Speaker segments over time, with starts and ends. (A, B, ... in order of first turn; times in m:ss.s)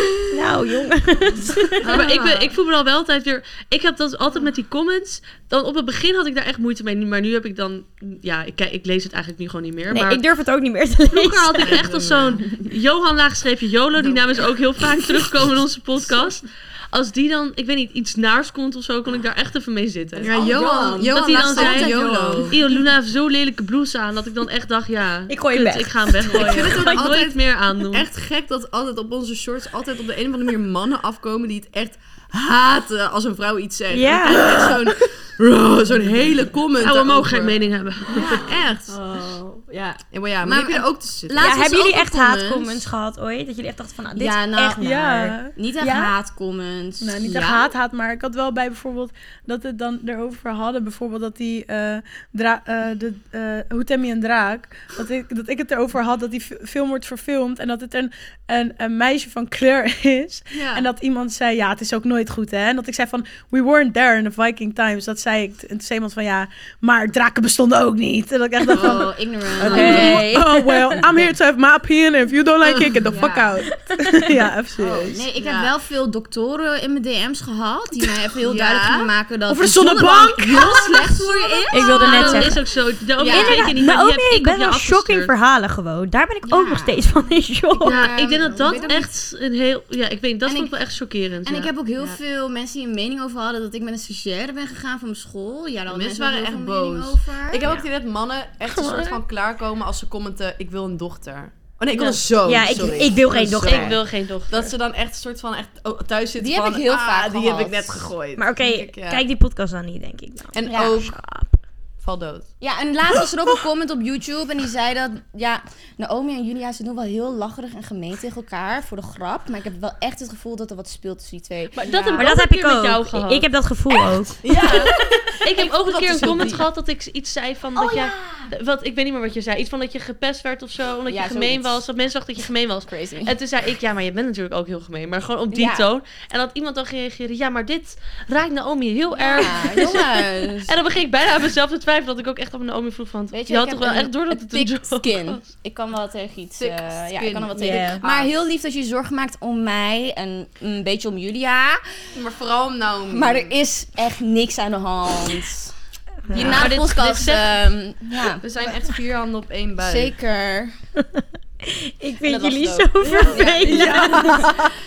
0:00.3-0:02.0 A
0:01.8-0:10.2 B
0:01.9-0:02.5 C
0:09.9-0:11.8 A
0:11.1-0:20.3 B
0:11.6-0:12.4 C
0:14.0-0:14.3 C
0:20.2-0:22.6 C
0:20.2-0:22.6 D
0:21.1-0:28.1 B
0:25.3-0:27.0 A
0:26.3-0:37.6 C
0:33.9-0:34.7 A
0:36.8-0:38.5 B
0:38.1-0:42.9 D
0:38.2-0:39.0 C
0:40.1-0:41.5 C
0:41.4-0:44.8 A
0:44.2-0:47.7 D
0:44.7-0:46.1 E
0:47.0-1:15.3 E
1:00.6-1:00.9 C
1:08.7-1:10.5 D
1:09.6-1:10.9 A
1:12.6-1:13.0 C
1:13.1-1:13.6 D
1:13.8-1:14.3 A
1:14.8-1:22.6 D
1:15.4-1:15.7 C
1:18.4-1:19.1 C
1:19.5-1:20.8 E
1:20.4-1:22.2 C
1:21.7-1:22.6 A
1:21.8-1:25.3 B
1:23.2-1:23.8 D
1:23.3-1:28.1 A
1:26.4-1:27.0 D
1:27.8-1:29.1 D
1:27.8-1:31.7 B
1:30.4-1:30.7 D
1:31.4-1:37.7 D
1:35.9-1:49.2 C
1:38.7-1:39.2 B
1:42.0-1:42.2 B
1:42.4-1:44.0 A
1:43.6-1:44.7 B
1:46.4-1:48.1 D
1:48.4-1:51.6 A
1:50.5-1:51.2 C
1:50.6-1:51.0 D
1:52.0-1:52.5 C
1:52.6-2:02.3 D
2:01.8-2:03.5 B
2:02.2-2:04.4 A
2:04.4-2:06.7 C
2:04.4-2:04.9 D
2:05.4-2:25.4 B
2:06.2-2:06.6 D
2:07.8-2:08.5 D
2:11.1-2:11.8 D
2:12.9-2:13.3 D
2:15.5-2:15.9 D
2:19.2-2:20.7 D
2:23.3-2:31.8 D
2:26.6-2:28.4 C
2:27.6-2:28.0 A
2:32.1-2:33.6 C
2:33.1-2:35.7 D
2:36.3-2:36.6 A
2:36.3-2:38.7 D
2:36.4-2:36.6 C
2:36.4-2:37.5 B
2:38.4-2:40.2 C
2:39.8-2:40.8 D
2:41.2-2:44.4 A
2:42.2-2:44.4 D
2:43.1-2:44.7 E